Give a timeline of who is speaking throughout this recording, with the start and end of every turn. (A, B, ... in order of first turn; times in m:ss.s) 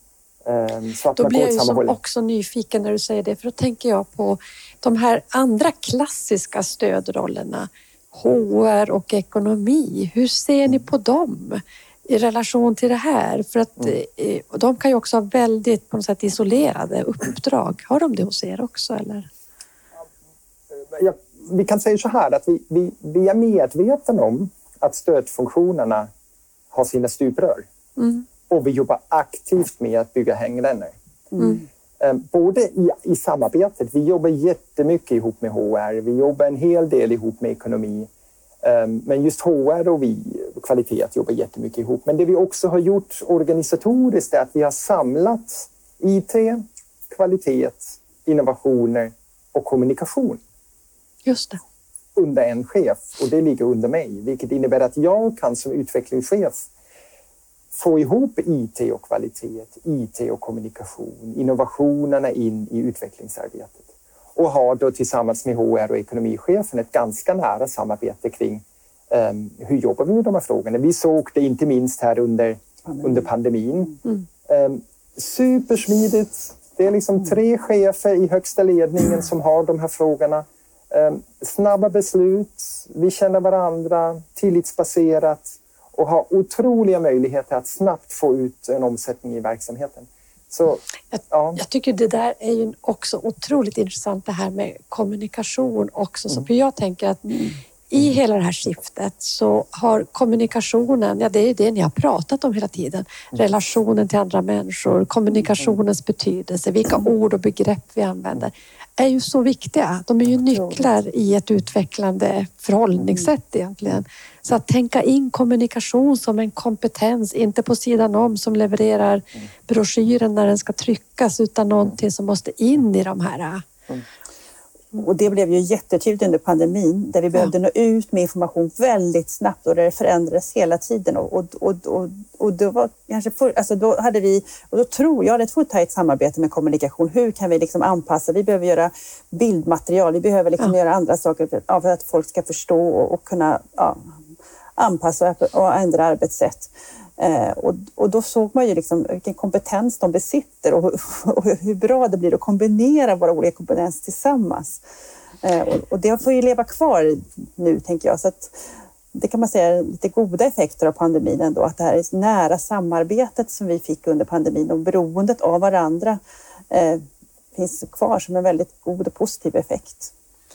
0:00.4-0:02.0 A
0:01.2-0:19.3 B
0:20.7-0:26.1 A
0:26.7-0:27.7 A
0:28.0-0:28.3 B
0:28.5-0:30.9 A
0:31.3-0:31.7 C
0:32.0-0:38.1 A
0:38.6-0:50.4 A
0:51.3-0:51.6 B
0:52.2-0:56.6 A
0:57.7-1:03.8 A
1:04.4-1:31.6 A
1:31.1-1:37.3 B
1:37.3-1:37.6 C
1:37.9-2:03.6 B
1:50.6-1:50.9 C
2:05.0-2:24.0 C
2:24.8-2:34.8 C
2:35.4-2:38.6 C
2:39.1-2:46.2 C
2:46.7-2:50.1 C